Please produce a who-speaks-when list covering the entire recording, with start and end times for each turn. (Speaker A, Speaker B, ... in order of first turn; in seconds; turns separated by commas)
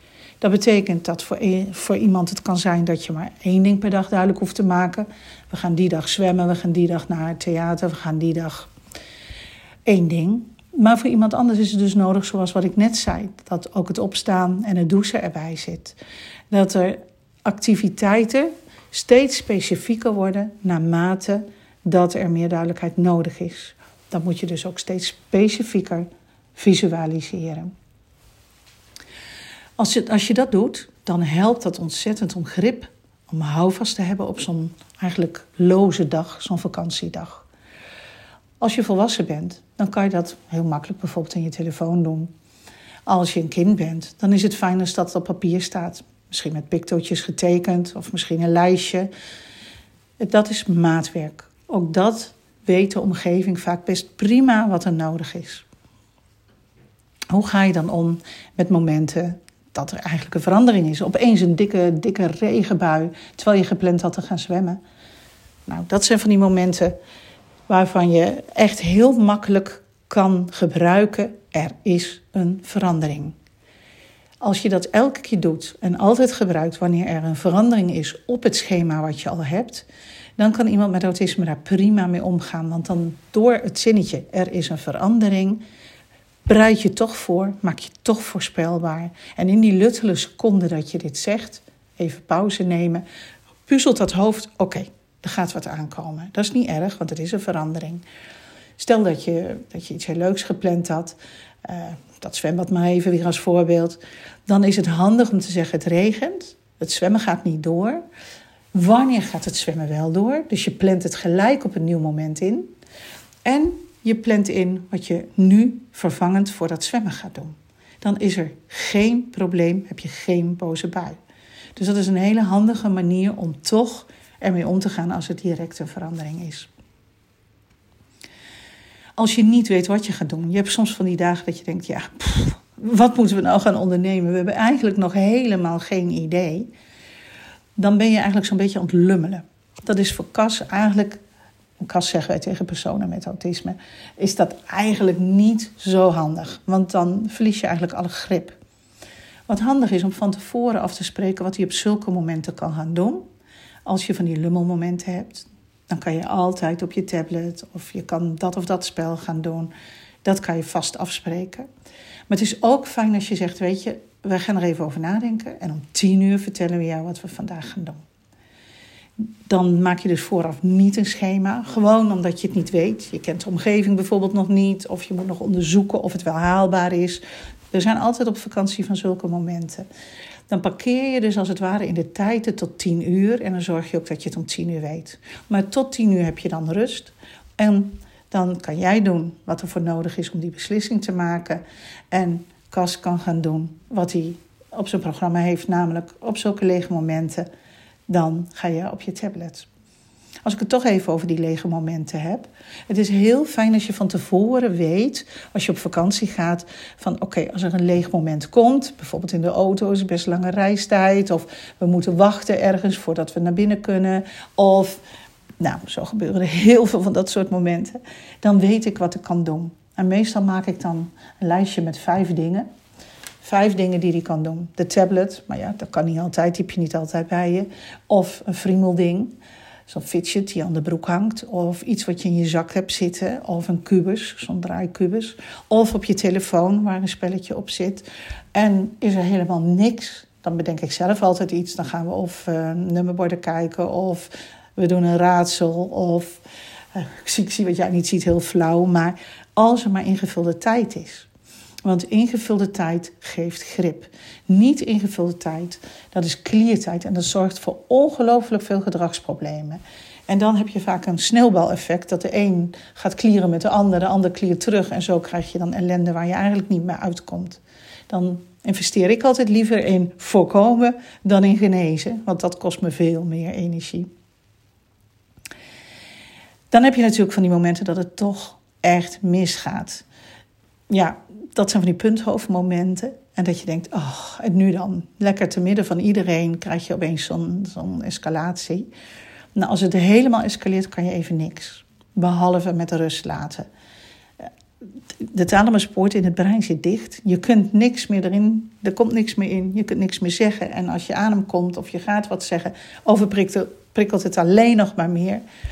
Speaker A: 0.4-8.7, Speaker A: 9.9-16.0, Speaker A: 16.5-27.7, Speaker A: 29.8-37.5, Speaker A: 38.6-42.3, Speaker A: 43.1-49.1, Speaker A: 50.2-55.6, Speaker A: 57.3-64.8, Speaker A: 65.7-67.0, Speaker A: 67.7-73.4, Speaker A: 74.4-79.9, Speaker A: 80.4-85.6, Speaker A: 86.5-93.0, Speaker A: 93.7-98.0, Speaker A: 98.8-108.0, Speaker A: 108.7-112.7, Speaker A: 113.4-121.2, Speaker A: 121.8-126.7, Speaker A: 129.2-136.7, Speaker A: 137.8-141.2, Speaker A: 141.8-148.6, Speaker A: 149.5-153.3, Speaker A: 153.8-159.7, Speaker A: 160.2-161.7, Speaker A: 162.3-168.0, Speaker A: 169.5-179.9, Speaker A: 180.5-197.5, Speaker A: 198.1-199.7, Speaker A: 200.4-215.0, Speaker A: 215.6-222.7, Speaker A: 223.4-229.4, Speaker A: 229.9-246.4, Speaker A: 246.9-251.3, Speaker A: 251.8-274.1, Speaker A: 276.7-280.1, Speaker A: 280.9-288.9, Speaker A: 289.6-293.7, Speaker A: 295.2-305.4